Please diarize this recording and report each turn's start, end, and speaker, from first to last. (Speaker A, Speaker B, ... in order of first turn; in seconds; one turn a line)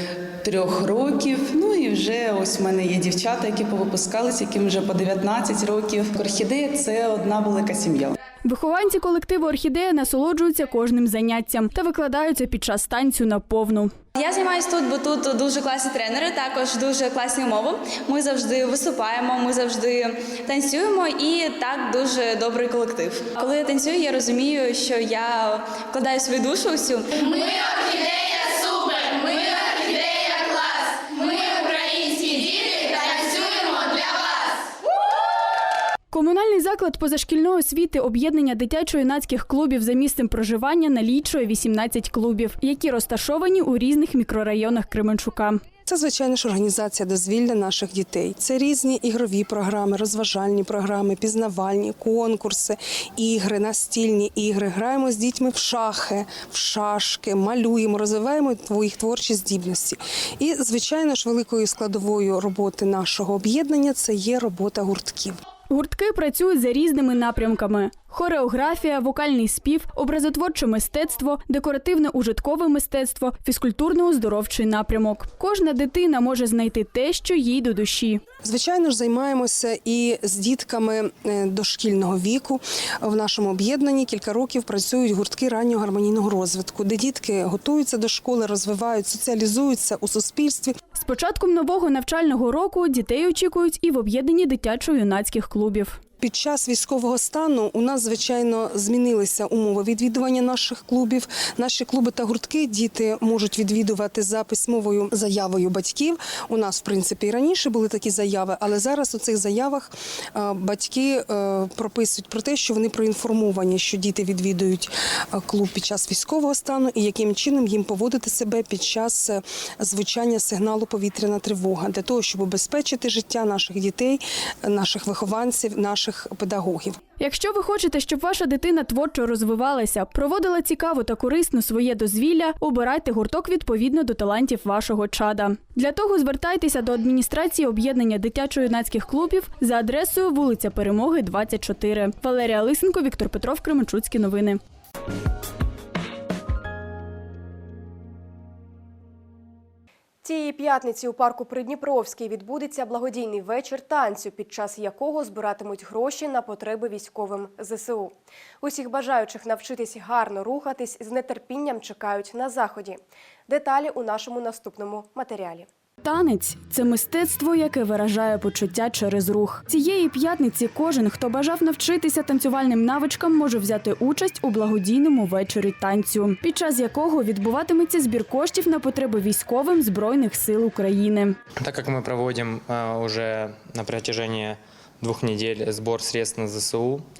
Speaker A: 0.4-8.1
Speaker B: 8.4-13.9
Speaker C: 14.2-34.2
Speaker B: 36.1-45.6
Speaker D: 45.9-65.4
Speaker B: 65.7-78.2
Speaker D: 78.4-90.8
Speaker B: 91.0-96.0
Speaker D: 96.2-127.0
Speaker B: 127.2-144.6
Speaker E: 150.2-165.7
Speaker B: 166.0-181.4
Speaker F: 181.6-187.0